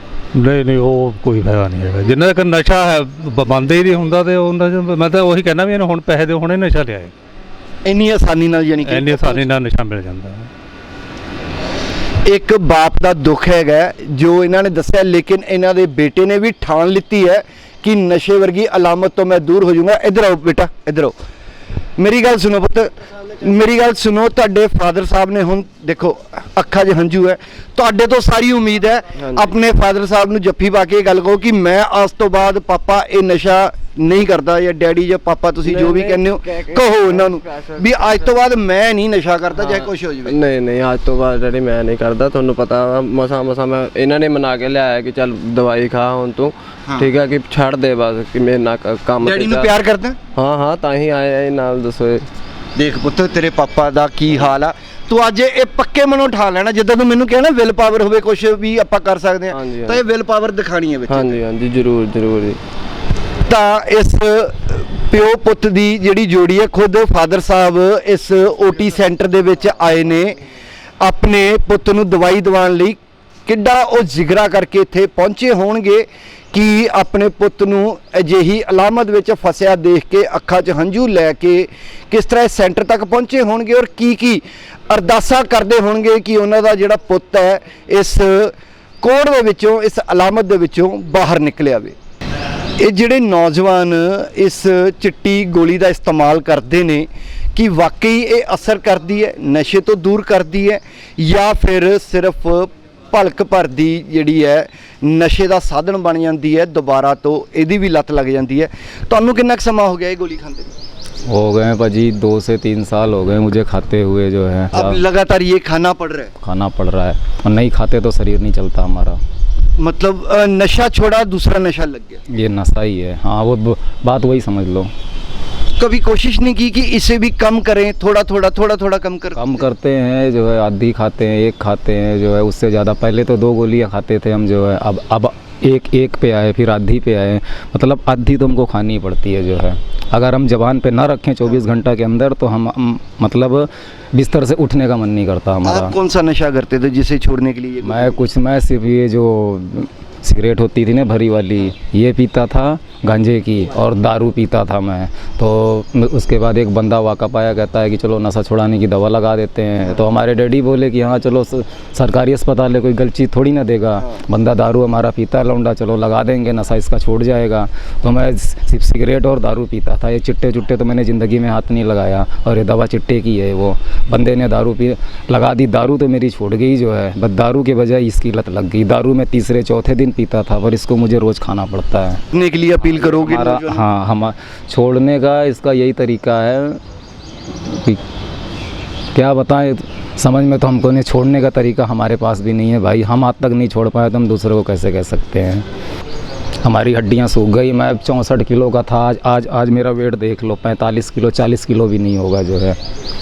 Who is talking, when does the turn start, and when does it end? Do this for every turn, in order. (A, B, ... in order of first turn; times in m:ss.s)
0:00.3-0:07.1 A
0:07.8-0:09.5 B
0:08.9-0:10.5 A
0:12.2-0:21.1 B
0:22.0-0:40.4 B
0:29.2-0:29.6 C
0:35.6-0:38.3 C
0:39.5-0:49.7 C
0:49.2-0:50.2 B
0:50.4-0:52.3 C
0:52.8-1:01.4 B
0:59.5-1:00.0 C
1:01.1-1:02.6 C
1:03.5-1:10.4 B
1:11.0-1:32.0 B
1:32.8-1:50.7 B
1:51.3-1:55.0 D
1:54.7-1:56.3 B
1:56.4-1:59.2 D
1:59.8-2:02.2 B
2:02.3-2:04.9 D
2:05.8-2:09.4 B
2:09.4-2:26.0 D
2:25.6-2:28.2 B
2:27.8-3:02.2 D
3:02.3-3:03.8 B
3:02.8-3:06.8 D
3:07.7-3:08.0 D
3:09.2-3:15.6 D
3:16.6-3:22.8 D